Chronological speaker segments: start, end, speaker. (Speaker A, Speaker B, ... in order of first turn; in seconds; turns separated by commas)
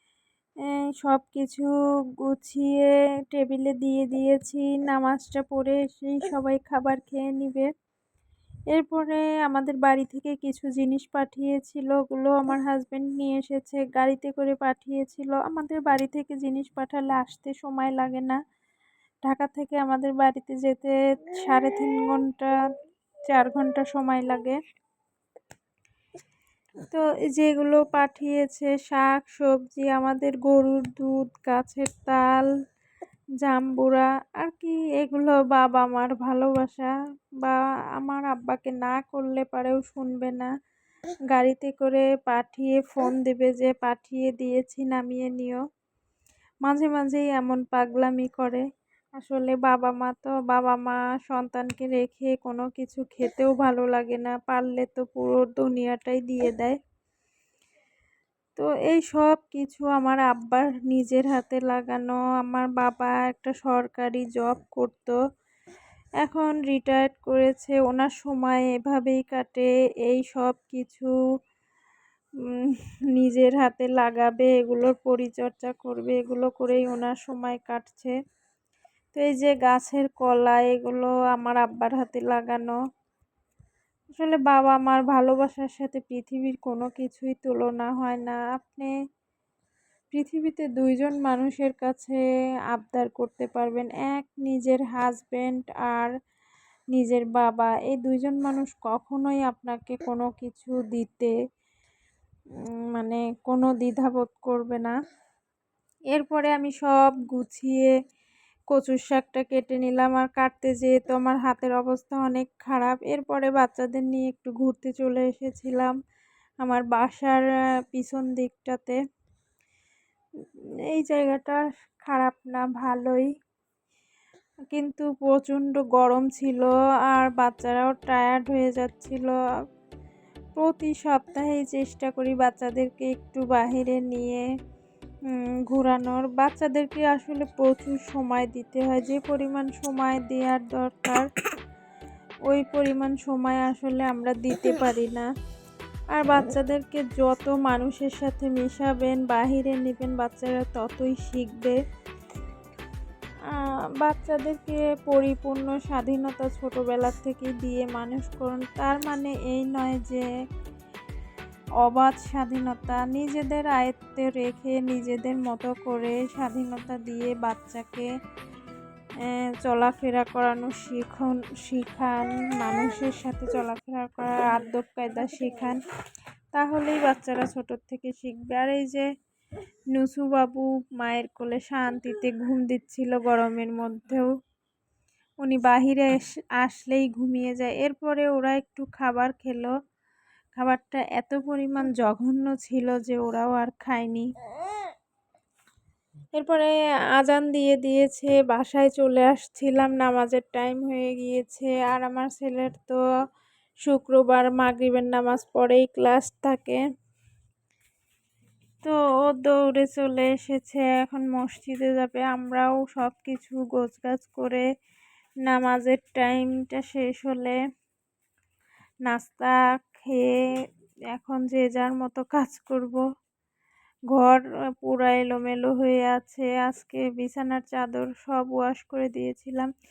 Speaker A: 1.0-7.7, Speaker A: 8.7-18.4, Speaker A: 19.2-22.6, Speaker A: 23.3-24.6, Speaker A: 26.9-32.5, Speaker A: 33.4-40.5, Speaker A: 41.3-45.6, Speaker A: 46.6-48.7, Speaker A: 49.2-56.8, Speaker A: 58.6-65.2, Speaker A: 66.2-71.1, Speaker A: 72.5-78.1, Speaker A: 79.1-82.8, Speaker A: 84.1-88.9, Speaker A: 90.1-96.1, Speaker A: 96.9-101.3, Speaker A: 102.9-104.9, Speaker A: 106.1-108.0, Speaker A: 108.7-116.0, Speaker A: 116.6-119.0, Speaker A: 120.9-123.3, Speaker A: 124.7-129.4, Speaker A: 130.6-134.4, Speaker A: 135.3-141.2, Speaker A: 142.4-145.3, Speaker A: 146.1-151.8, Speaker A: 153.5-160.3, Speaker A: 161.8-168.1, Speaker A: 169.2-175.8, Speaker A: 176.5-179.1, Speaker A: 179.9-184.3, Speaker A: 185.4-189.7, Speaker A: 190.5-194.3, Speaker A: 196.3-203.0, Speaker A: 203.8-206.8, Speaker A: 208.8-214.7, Speaker A: 215.4-217.6, Speaker A: 219.1-220.4, Speaker A: 221.1-223.0, Speaker A: 224.1-229.7